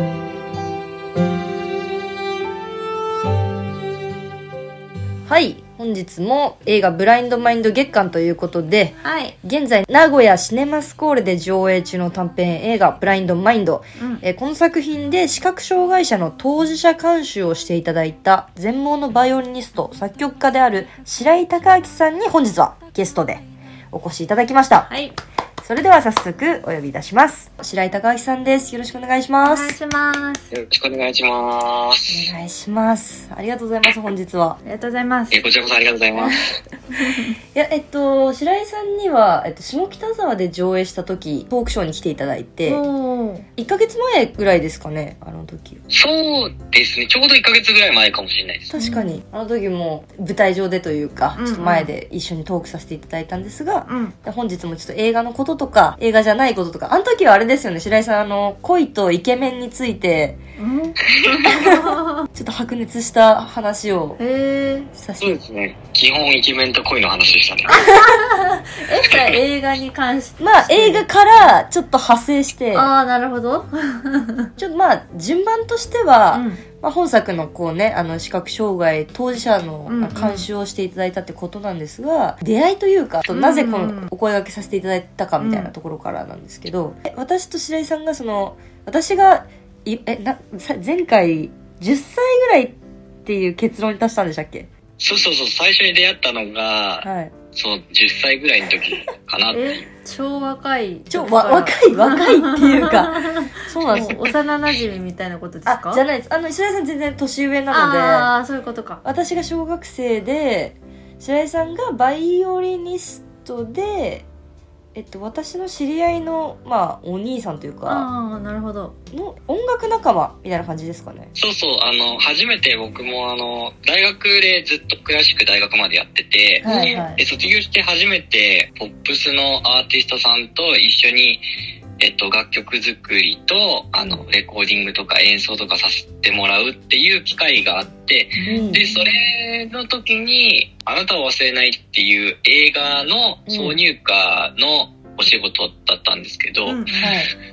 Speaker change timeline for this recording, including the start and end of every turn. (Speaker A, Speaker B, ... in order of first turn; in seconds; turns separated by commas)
Speaker A: 5.3-24.9, Speaker B: 9.0-9.4, Speaker B: 14.0-14.2, Speaker B: 24.8-25.2, Speaker A: 25.6-29.8, Speaker B: 29.4-30.5, Speaker C: 30.5-32.3, Speaker A: 32.1-34.6, Speaker B: 34.6-35.4, Speaker C: 35.3-36.4, Speaker A: 37.5-42.8, Speaker B: 42.6-43.5, Speaker A: 43.6-45.8, Speaker C: 45.9-48.7, Speaker A: 48.7-60.4, Speaker B: 48.8-49.2, Speaker B: 51.4-51.9, Speaker B: 53.9-54.2, Speaker B: 60.6-62.3, Speaker A: 61.4-64.2, Speaker B: 64.2-64.9, Speaker A: 64.9-65.4, Speaker C: 65.2-67.8, Speaker B: 67.7-71.6, Speaker C: 69.1-69.4, Speaker A: 70.4-72.9, Speaker B: 72.7-74.5, Speaker A: 74.6-94.7, Speaker B: 76.3-76.6, Speaker B: 79.9-80.5, Speaker B: 83.3-84.1, Speaker B: 85.4-85.7, Speaker C: 95.0-99.9, Speaker A: 97.0-97.3, Speaker B: 99.5-106.0, Speaker A: 101.1-104.4, Speaker A: 105.7-108.3, Speaker B: 107.7-109.0, Speaker A: 109.0-114.3, Speaker A: 115.0-118.1, Speaker B: 117.9-119.0, Speaker A: 119.1-121.3, Speaker C: 121.4-131.4, Speaker B: 126.6-127.2, Speaker A: 126.6-127.0, Speaker C: 132.0-146.9, Speaker B: 138.4-139.1, Speaker A: 138.4-138.8, Speaker A: 143.5-143.8, Speaker B: 146.7-147.2, Speaker A: 147.0-147.3